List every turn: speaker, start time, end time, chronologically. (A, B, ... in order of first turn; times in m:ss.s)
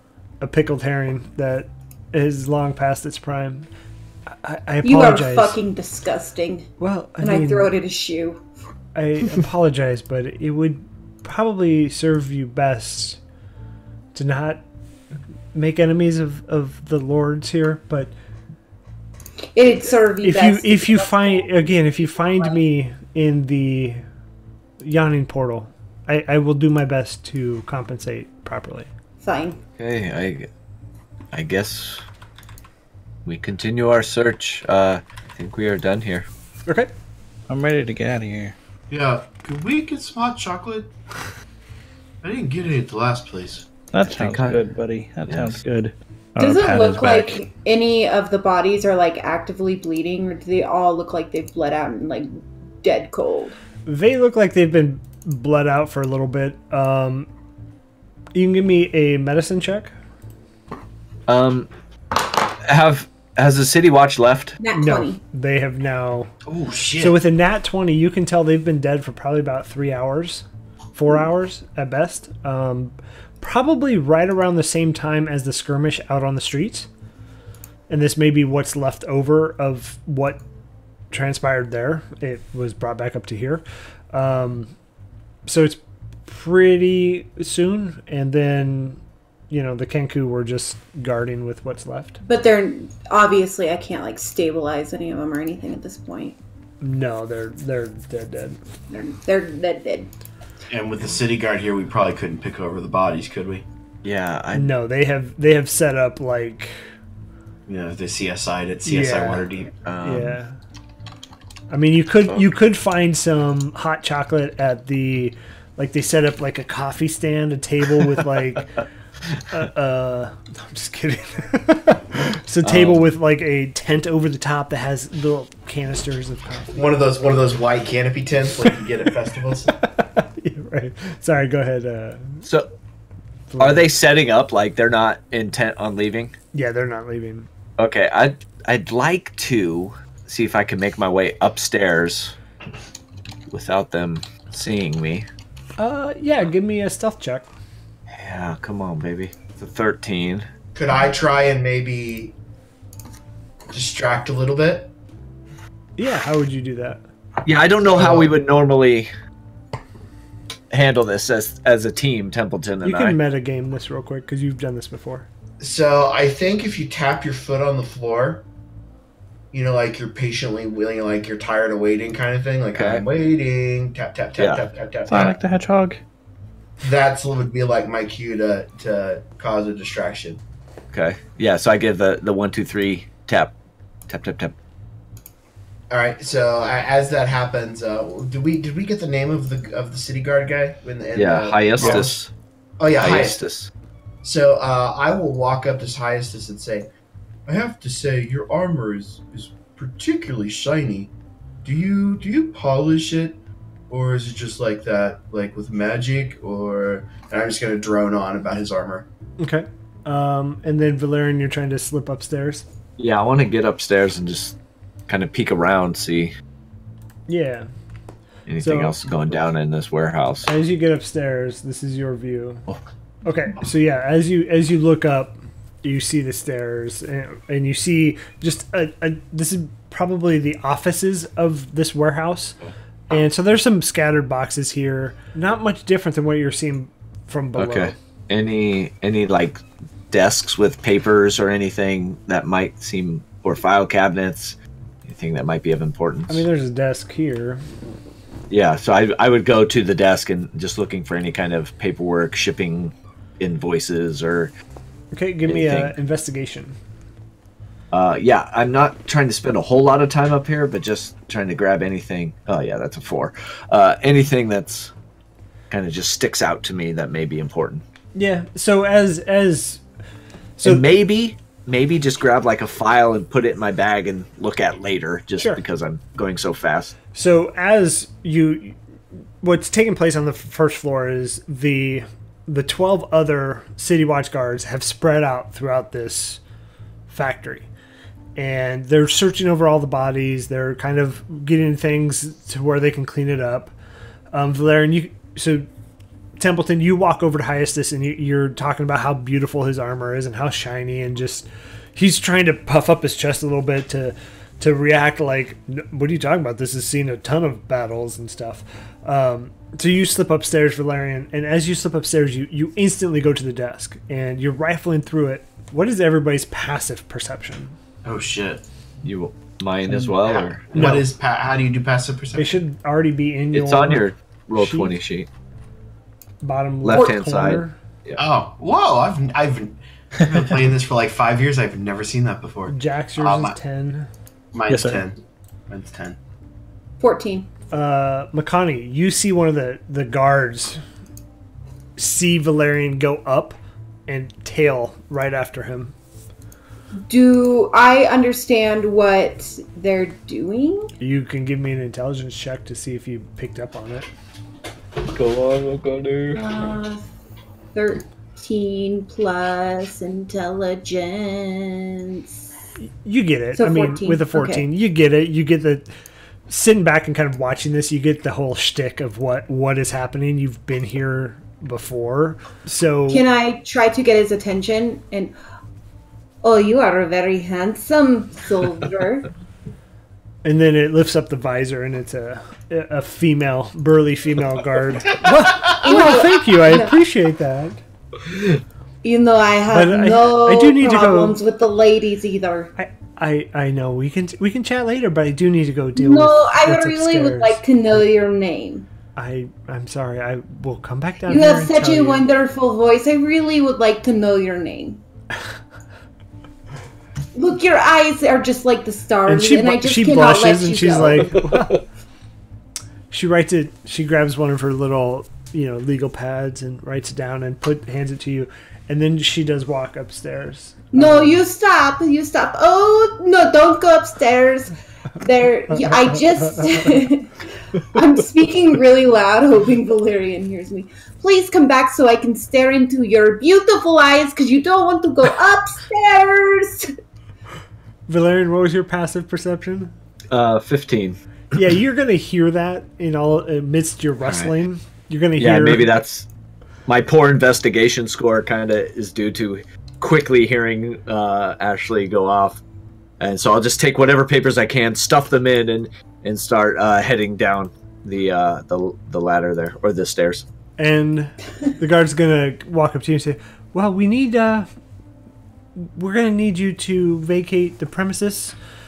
0:00.4-0:03.7 A
0:04.4-0:05.6 A
0:04.8-0:06.7 B
0:06.8-0:07.7 A
0:07.2-0:08.4 B
0:09.0-0:13.2 A
0:14.1-0:14.6 A
0:15.5-0:18.1 A
0:19.6-0:21.7 B
0:20.2-0:24.0 A
0:22.3-0:22.6 B
0:24.8-0:28.9 A
0:29.2-0:29.6 B
0:29.8-0:30.5 C
0:31.3-0:32.0 C
0:33.2-0:36.3 C
0:37.5-0:38.6 D
0:38.9-0:40.9 E
0:42.2-0:43.7 E
0:43.9-0:47.4 D
0:44.1-0:44.6 C
0:45.3-0:45.6 C
0:46.4-0:52.3 B
0:52.8-0:53.6 B
0:53.9-0:57.3 A
0:58.4-0:59.9 A
1:01.3-1:04.6 C
1:04.6-1:05.2 B
1:04.7-1:06.3 A
1:06.5-1:07.2 E
1:07.0-1:16.9 A
1:17.9-1:20.4 A
1:21.1-1:24.7 A
1:25.5-1:32.2 A
1:32.2-1:36.4 B
1:36.8-1:38.6 A
1:38.9-1:40.1 B
1:40.7-1:43.6 E
1:44.0-1:44.7 C
1:44.5-1:46.7 A
1:47.7-1:49.7 E
1:48.8-1:49.4 A
1:49.9-1:50.4 C
1:50.0-1:50.6 A
1:51.7-1:58.8 A
1:59.5-2:06.8 A
2:02.6-2:03.1 C
2:06.7-2:09.7 E
2:09.7-2:12.4 A
2:13.5-2:13.9 A
2:13.6-2:16.4 C
2:16.5-2:17.5 A
2:17.8-2:22.4 C
2:23.5-2:25.3 C
2:25.8-2:27.5 A
2:28.1-2:30.5 C
2:30.7-2:32.4 E
2:33.7-2:34.9 E
2:36.0-2:37.0 A
2:37.4-2:39.1 C
2:37.9-2:38.3 E
2:40.7-2:43.2 C
2:42.8-2:45.3 A
2:45.6-2:48.4 E
2:49.5-2:55.4 E
2:52.7-2:53.1 C
2:54.4-2:54.6 C
2:55.1-2:56.0 D
2:56.8-3:00.4 E
3:00.9-3:03.5 C
3:04.1-3:04.6 C
3:05.9-3:12.2 E
3:11.1-3:12.3 C
3:12.8-3:13.4 E
3:13.0-3:13.7 C
3:14.2-3:16.9 E
3:17.5-3:21.1 E
3:21.6-3:23.4 E
3:23.9-3:29.1 E
3:29.4-3:32.6 A
3:33.0-3:34.6 C
3:35.1-3:36.3 C
3:37.3-3:37.7 A
3:38.5-3:40.5 C
3:38.6-3:39.0 A
3:40.4-3:42.7 A
3:43.2-3:52.6 A
3:53.1-3:58.0 A
3:57.6-4:06.5 C
4:06.3-4:07.6 A
4:08.5-4:14.5 C
4:15.1-4:16.8 A
4:15.5-4:15.9 C
4:17.9-4:24.9 C
4:25.7-4:27.8 C
4:28.2-4:29.8 A
4:30.6-4:30.9 A
4:30.6-4:37.0 C
4:37.1-4:38.8 A
4:39.4-4:46.4 A
4:47.1-4:47.7 A
4:48.4-4:53.7 A
4:54.3-4:55.7 A
4:56.4-5:17.8 A
5:18.0-5:18.6 E
5:19.0-5:20.8 C
5:20.2-5:22.6 E
5:20.7-5:21.1 A
5:22.4-5:25.0 A
5:23.5-5:25.3 C
5:26.4-5:27.8 A
5:26.8-5:28.2 C
5:28.2-5:33.6 E
5:32.7-5:34.1 A
5:34.5-5:35.2 E
5:34.7-5:35.0 D
5:35.7-5:36.2 E
5:37.0-5:37.5 B
5:37.7-5:40.8 A
5:42.0-5:46.0 A
5:47.1-5:50.9 B
5:51.0-5:54.1 A
5:55.0-5:56.4 C
5:56.3-5:57.0 B
5:57.7-6:02.3 B
6:03.0-6:05.9 A
6:03.6-6:04.7 B
6:06.5-6:13.2 A
6:13.1-6:15.3 B
6:16.4-6:19.3 B
6:20.4-6:27.8 A
6:25.7-6:26.9 B
6:29.0-6:32.7 B
6:29.7-6:31.4 A
6:32.8-6:37.6 A
6:36.0-6:38.9 B
6:39.2-6:42.2 A
6:41.3-6:45.0 B
6:47.3-6:51.4 B
6:49.3-6:51.8 A
6:53.1-7:01.4 A
7:00.9-7:16.9 B
7:05.7-7:06.8 A
7:18.1-7:19.9 A
7:20.3-7:21.2 C
7:21.5-7:25.9 A
7:25.4-7:26.3 C
7:26.9-7:32.6 C
7:33.2-7:40.4 C
7:40.8-7:44.7 A
7:45.8-7:48.6 A